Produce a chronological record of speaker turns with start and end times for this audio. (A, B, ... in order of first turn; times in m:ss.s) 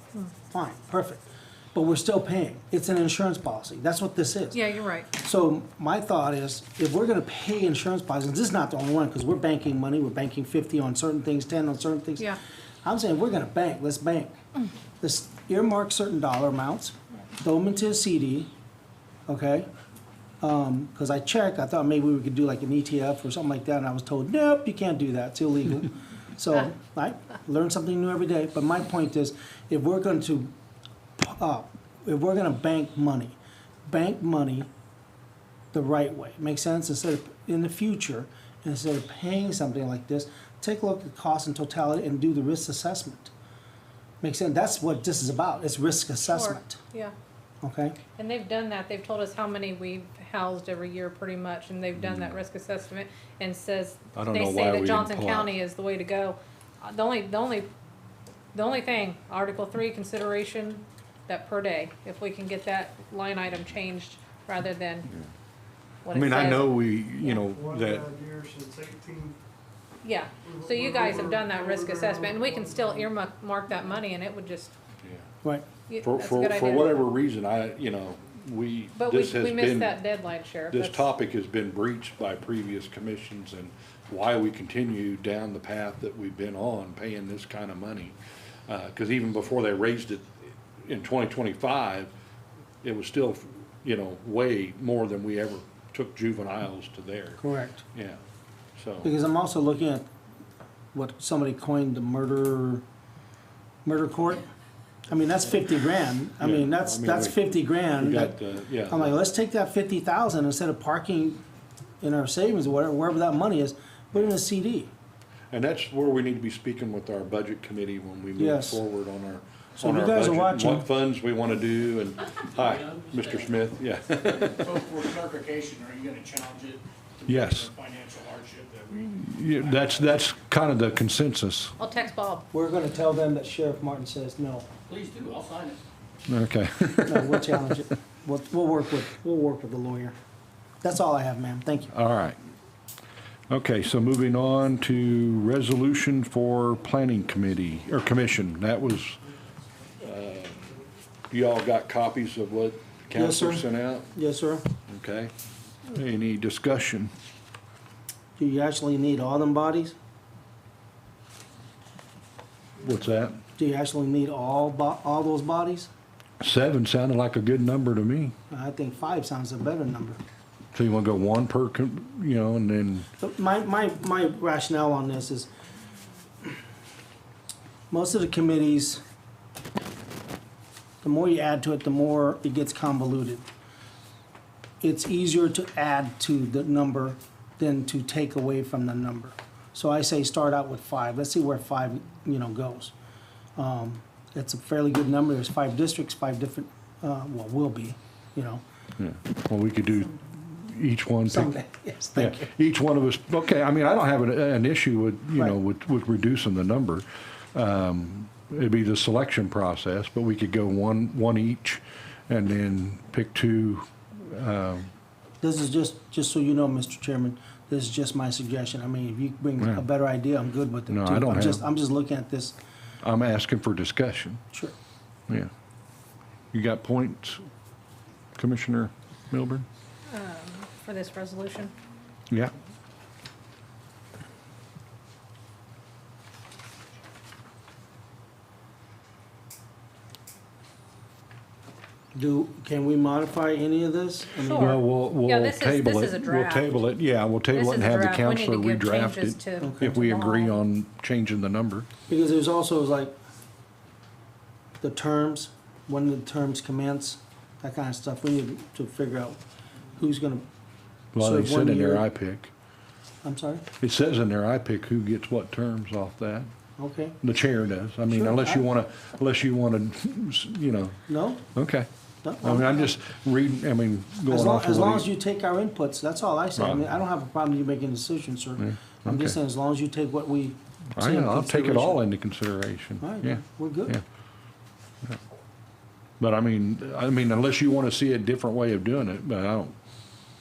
0:00.5-0:04.6 A
0:04.5-0:05.1 B
0:05.1-0:14.3 A
0:15.0-0:18.5 A
0:19.3-0:19.7 A
0:20.4-0:30.5 A
0:31.2-0:34.7 A
0:35.7-0:43.3 A
0:44.2-0:46.8 A
0:46.2-0:47.1 B
0:47.6-0:48.0 A
0:48.2-0:57.7 B
0:52.0-0:52.3 C
0:54.2-0:55.5 C
0:58.5-1:05.1 B
1:06.0-1:06.6 B
1:06.1-1:08.1 C
1:07.4-1:09.4 D
1:10.0-1:14.7 B
1:10.4-1:13.1 D
1:15.9-1:17.1 B
1:16.0-1:20.0 C
1:19.0-1:21.0 B
1:20.7-1:28.2 C
1:28.7-1:32.1 C
1:32.8-1:37.4 C
1:37.4-1:37.8 A
1:37.9-1:38.2 C
1:38.8-1:39.1 C
1:39.0-1:40.1 A
1:40.9-1:42.8 A
1:43.8-1:44.4 A
1:45.1-1:51.4 A
1:46.4-1:47.4 C
1:47.9-1:49.1 C
1:52.0-1:54.9 A
1:55.5-2:04.7 C
1:58.4-1:58.8 A
1:59.8-2:00.9 A
2:02.6-2:03.5 E
2:04.3-2:10.1 E
2:07.3-2:07.7 C
2:09.1-2:11.7 C
2:11.8-2:12.5 B
2:12.5-2:14.7 A
2:14.9-2:15.8 E
2:16.3-2:17.7 C
2:17.0-2:20.1 A
2:20.8-2:21.9 A
2:21.9-2:22.4 C
2:23.5-2:29.2 C
2:30.0-2:30.7 C
2:31.3-2:34.1 C
2:33.1-2:34.6 A
2:34.9-2:35.3 C
2:35.9-2:37.1 C
2:38.4-2:40.0 A
2:42.8-2:43.4 C
2:43.6-2:45.9 A
2:46.4-2:48.3 C
2:48.5-2:50.2 A
2:50.7-2:53.1 C
2:53.2-2:55.5 A
2:57.9-2:59.0 A
3:01.0-3:03.4 A
3:04.8-3:12.9 A
3:13.6-3:18.6 A
3:19.0-3:21.5 C
3:21.3-3:22.4 A
3:22.2-3:34.9 C
3:35.4-3:42.6 A
3:40.9-3:41.6 C
3:43.0-3:44.4 C
3:46.5-3:47.4 C
3:48.4-3:49.6 C
3:50.1-3:51.7 B
4:02.1-4:04.8 A
4:04.4-4:06.7 B
4:04.6-4:11.9 C
4:07.5-4:10.6 B
4:09.6-4:10.0 A
4:12.1-4:13.1 A
4:14.8-4:19.4 A
4:20.0-4:20.4 A
4:21.1-4:22.5 C
4:21.2-4:22.0 A
4:23.2-4:23.6 A
4:23.8-4:26.5 C
4:26.8-4:27.2 A
4:27.2-4:31.0 C
4:28.1-4:28.6 A
4:31.1-4:31.4 A
4:31.5-4:31.9 C
4:32.2-4:32.9 A
4:32.4-4:35.1 C
4:34.3-4:42.0 A
4:36.6-4:36.8 C
4:38.6-4:39.4 C
4:41.0-4:44.0 C
4:43.0-4:44.0 A
4:46.2-4:49.7 C